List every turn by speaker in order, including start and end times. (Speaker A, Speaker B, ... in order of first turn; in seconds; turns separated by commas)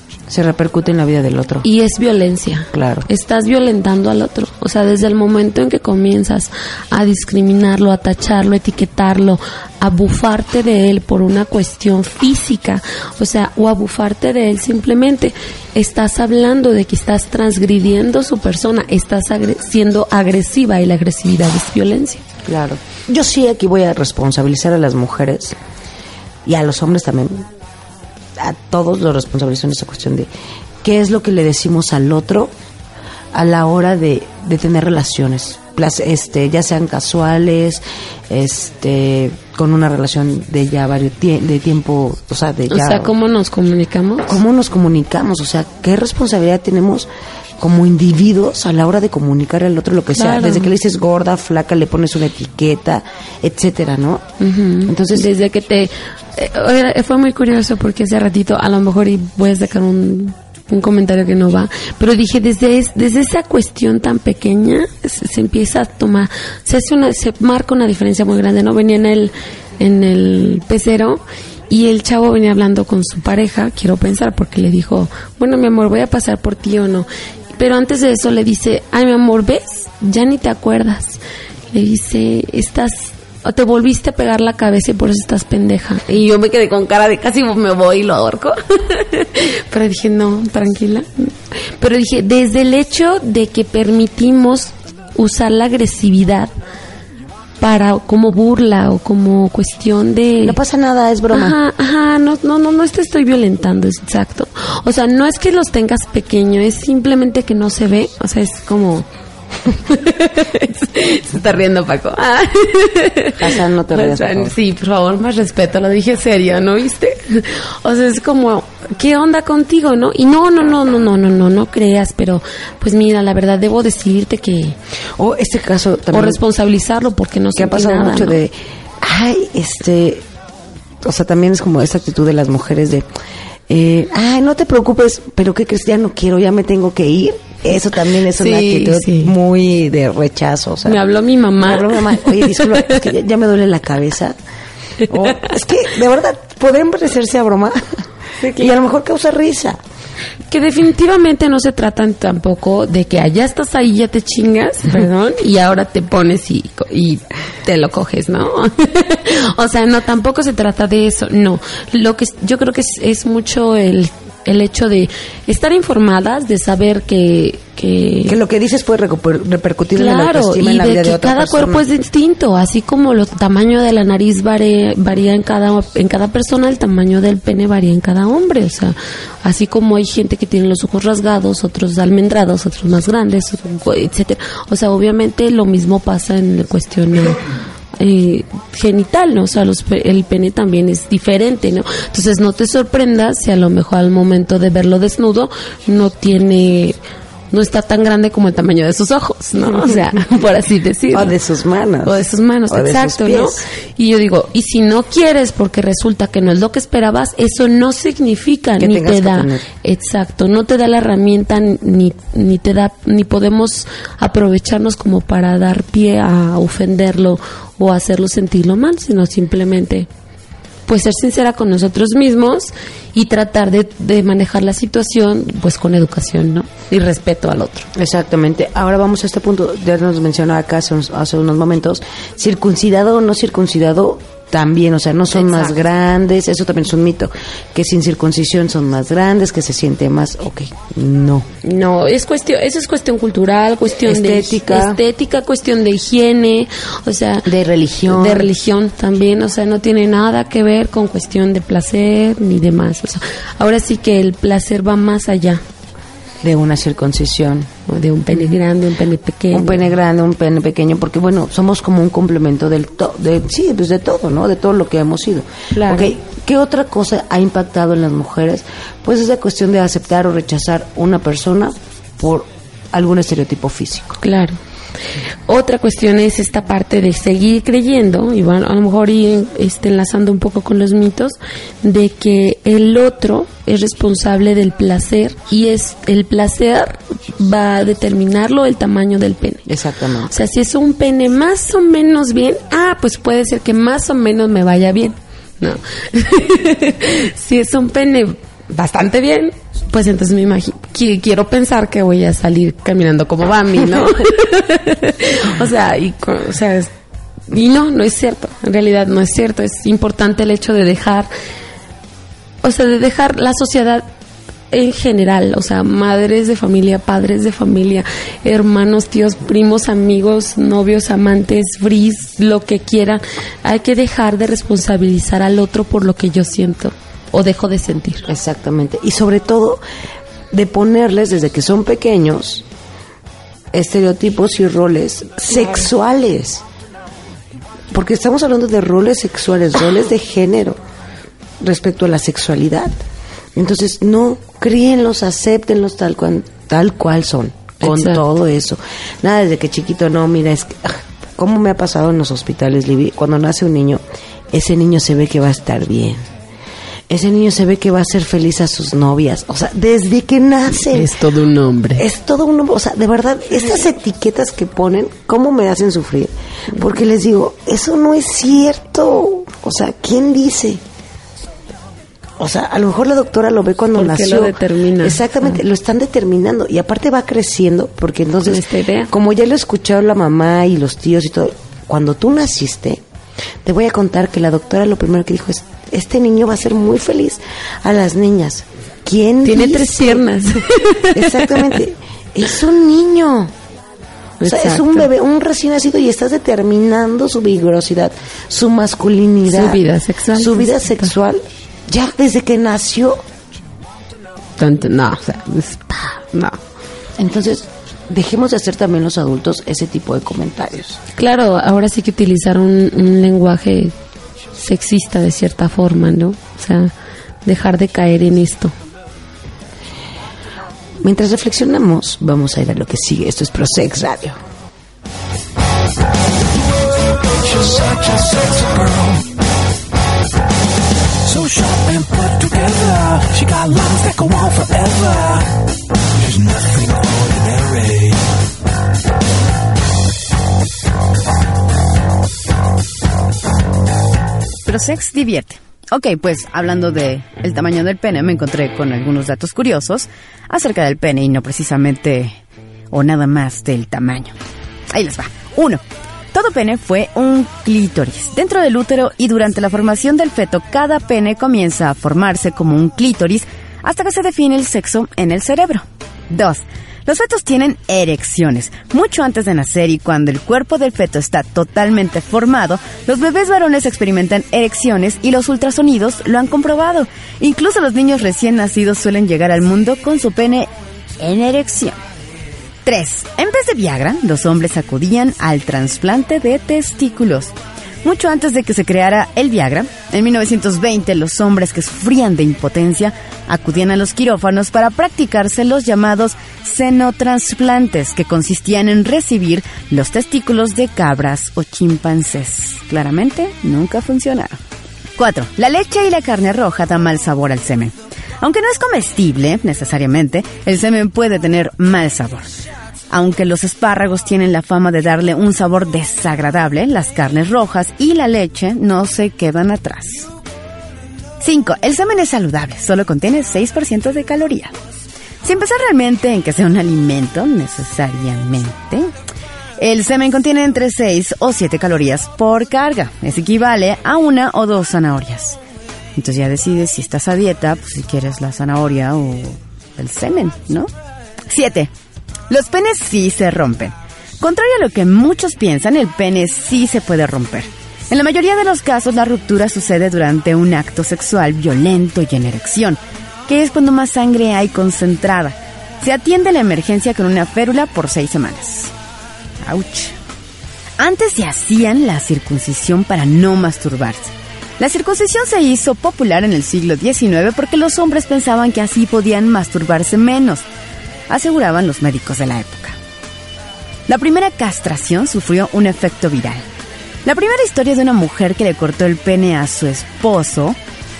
Speaker A: 0.3-1.6, Speaker B: 1.6-22.2, Speaker A: 2.7-3.1, Speaker A: 22.4-25.6, Speaker A: 26.4-27.5, Speaker A: 28.4-30.3, Speaker A: 30.8-32.5, Speaker A: 33.3-43.1, Speaker B: 42.7-44.4, Speaker A: 44.3-54.2, Speaker B: 50.1-50.7, Speaker B: 54.4-81.2, Speaker A: 54.9-55.3, Speaker B: 81.7-96.5, Speaker B: 97.6-100.6, Speaker A: 100.4-101.6, Speaker B: 101.3-109.0, Speaker B: 109.7-124.8, Speaker A: 113.4-114.5, Speaker A: 125.2-126.4, Speaker B: 126.1-128.4, Speaker A: 127.5-130.2, Speaker A: 131.0-133.1, Speaker A: 133.7-141.0, Speaker B: 138.3-139.3, Speaker B: 140.8-143.0, Speaker A: 141.6-144.3, Speaker A: 145.0-149.8, Speaker B: 148.4-148.7, Speaker B: 150.5-168.4, Speaker A: 168.2-171.8, Speaker B: 169.9-187.4, Speaker B: 188.0-197.0, Speaker B: 197.5-201.3, Speaker A: 201.1-203.7, Speaker B: 202.0-220.1, Speaker A: 208.8-209.6, Speaker B: 220.8-227.9, Speaker A: 227.9-241.5, Speaker B: 235.3-235.8, Speaker B: 241.6-247.5, Speaker A: 244.0-245.0, Speaker A: 247.4-248.5, Speaker B: 248.0-255.6, Speaker A: 256.4-257.7, Speaker B: 257.9-259.8, Speaker A: 258.3-258.6, Speaker A: 259.5-274.2, Speaker B: 265.7-266.1, Speaker B: 274.2-274.6, Speaker B: 275.5-289.7, Speaker A: 289.7-290.3, Speaker B: 290.3-306.9, Speaker B: 307.5-311.3, Speaker B: 312.6-314.1, Speaker B: 314.7-328.3, Speaker A: 328.3-329.8, Speaker A: 330.5-332.6, Speaker A: 333.7-336.6, Speaker A: 337.9-340.8, Speaker A: 341.6-342.9, Speaker A: 343.6-356.3, Speaker B: 347.8-348.2, Speaker A: 357.1-361.2, Speaker B: 360.9-362.0, Speaker A: 361.9-370.8, Speaker A: 372.4-383.0, Speaker B: 373.9-375.6, Speaker B: 378.4-379.1, Speaker A: 383.6-390.2, Speaker B: 389.4-391.8, Speaker A: 391.1-393.5, Speaker B: 394.4-395.1, Speaker A: 394.4-399.8, Speaker B: 399.5-401.1, Speaker A: 400.3-403.2, Speaker B: 404.6-406.6, Speaker A: 407.2-411.0, Speaker B: 411.2-413.9, Speaker B: 414.5-416.9, Speaker B: 417.4-418.7, Speaker A: 421.0-424.4, Speaker C: 427.3-429.3, Speaker C: 431.2-435.5, Speaker C: 436.2-438.2, Speaker D: 444.6-452.4, Speaker D: 452.9-454.3, Speaker D: 454.9-455.8, Speaker D: 456.3-482.0, Speaker D: 482.8-487.5, Speaker D: 488.0-504.6, Speaker D: 505.2-512.5, Speaker D: 513.1-520.3, Speaker D: 521.4-524.7, Speaker D: 525.4-529.1, Speaker D: 529.8-535.6, Speaker D: 536.1-540.9, Speaker D: 541.5-541.9, Speaker D: 542.5-558.9, Speaker D: 559.6-560.1, Speaker D: 561.0-570.6, Speaker D: 571.3-573.0, Speaker D: 574.1-576.6, Speaker D: 577.2-580.8